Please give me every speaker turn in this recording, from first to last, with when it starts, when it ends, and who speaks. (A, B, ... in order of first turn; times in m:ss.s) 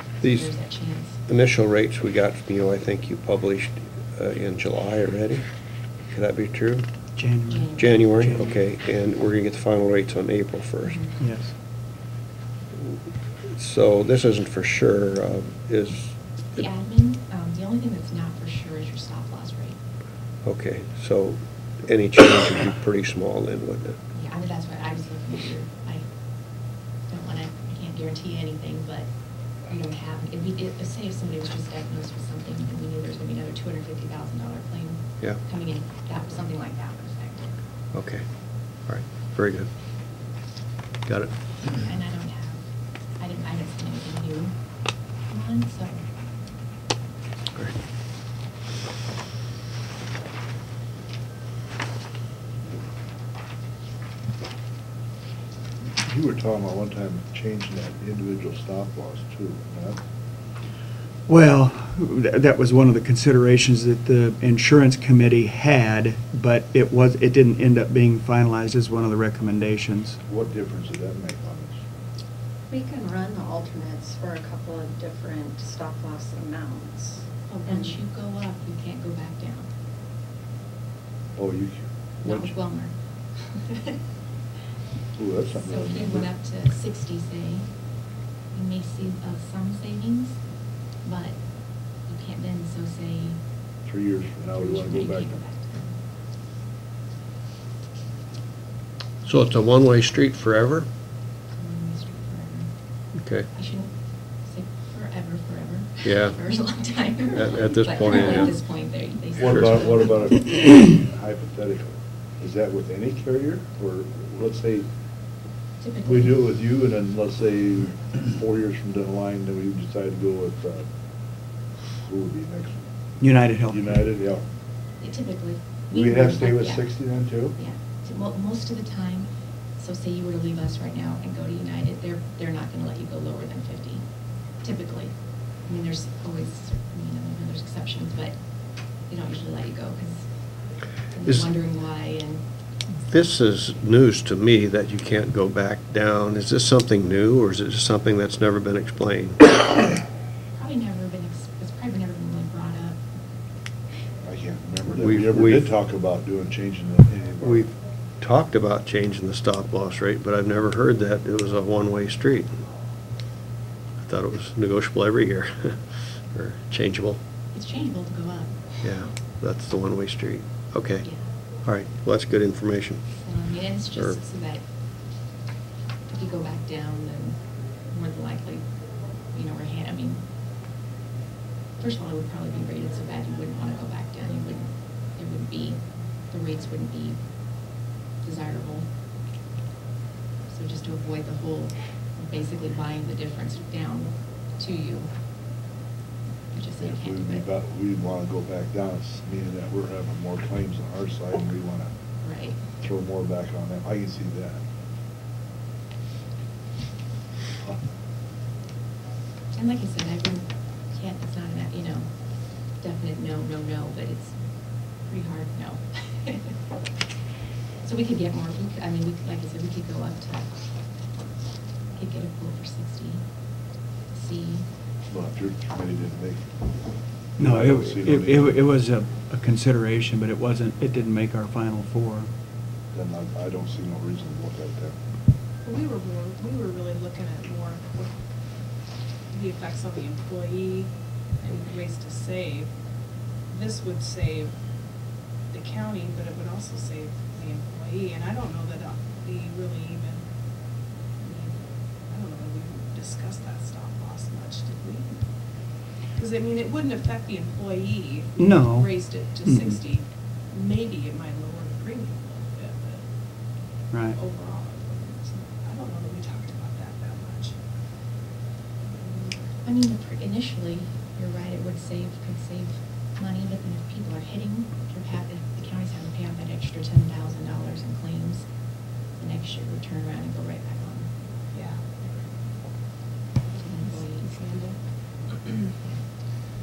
0:00.2-0:00.6 A
0:00.2-0:01.2 B
0:01.2-0:05.5 A
0:06.0-0:06.9 A
0:07.2-0:08.6 C
0:07.7-0:11.1 A
0:10.8-0:11.1 B
0:11.2-0:11.6 C
0:12.8-0:16.7 A
0:16.6-0:19.8 B
0:20.4-0:24.0 A
0:24.1-0:26.1 B
0:27.1-0:29.1 B
0:29.7-0:37.5 B
0:37.9-0:39.7 A
0:41.1-0:41.8 A
0:41.8-0:42.6 B
0:43.2-0:44.5 B
0:45.3-0:46.1 B
0:56.0-1:00.0 D
1:01.3-1:10.2 C
1:10.3-1:11.8 D
1:12.7-1:18.0 E
1:17.5-1:19.7 B
1:21.4-1:22.5 D
1:22.2-1:24.0 B
1:25.2-1:26.3 D
1:25.6-1:27.7 B
1:28.5-1:30.4 B
1:31.0-1:31.4 B
1:32.0-1:33.4 B
1:33.9-1:35.4 D
1:34.6-1:35.9 B
1:39.2-1:40.9 A
1:41.5-1:42.7 B
1:43.2-1:43.5 A
1:43.5-1:43.9 B
1:44.4-1:50.4 B
1:46.0-1:46.4 A
1:47.3-1:48.5 A
1:49.4-1:54.9 D
1:49.4-1:49.8 A
1:55.8-1:56.4 B
1:56.0-2:00.9 D
2:01.9-2:02.9 D
2:03.2-2:03.8 C
2:03.7-2:04.4 D
2:05.0-2:06.9 B
2:05.9-2:07.6 D
2:07.6-2:14.0 B
2:14.6-2:15.1 B
2:15.7-2:18.4 B
2:19.1-2:20.3 B
2:21.1-2:22.4 B
2:21.2-2:21.5 A
2:23.0-2:29.6 A
2:30.5-2:33.0 B
2:34.2-2:37.7 D
2:34.9-2:35.7 A
2:37.4-2:42.6 A
2:44.0-2:47.2 A
2:47.5-2:48.5 B
2:48.8-2:53.2 A
2:53.2-2:54.6 B
2:53.9-2:54.2 A
2:56.1-2:58.7 B
2:59.3-3:00.2 B
3:01.8-3:07.2 B
3:08.2-3:08.9 B
3:10.5-3:15.1 B
3:16.5-3:17.4 B
3:16.8-3:21.9 D
3:22.2-3:22.6 B
3:22.8-3:24.6 D
3:29.5-3:32.1 B
3:32.7-3:34.4 B
3:35.0-3:36.5 B
3:37.8-3:40.5 B
3:41.9-3:43.2 B
3:44.1-3:44.7 B
3:45.1-3:46.6 D
3:47.4-3:48.6 D
3:47.4-3:52.3 C
3:52.9-3:55.0 D
3:55.6-3:58.1 F
3:59.3-4:00.9 F
4:01.4-4:02.7 F
4:03.5-4:04.5 F
4:05.5-4:10.2 F
4:11.2-4:15.1 F
4:16.2-4:23.0 F
4:18.4-4:19.8 C
4:23.9-4:24.2 C
4:24.1-4:27.5 F
4:29.0-4:29.5 F
4:29.6-4:38.5 B
4:39.1-4:41.1 B
4:41.5-4:41.8 F
4:43.6-4:44.2 B
4:43.7-4:44.8 F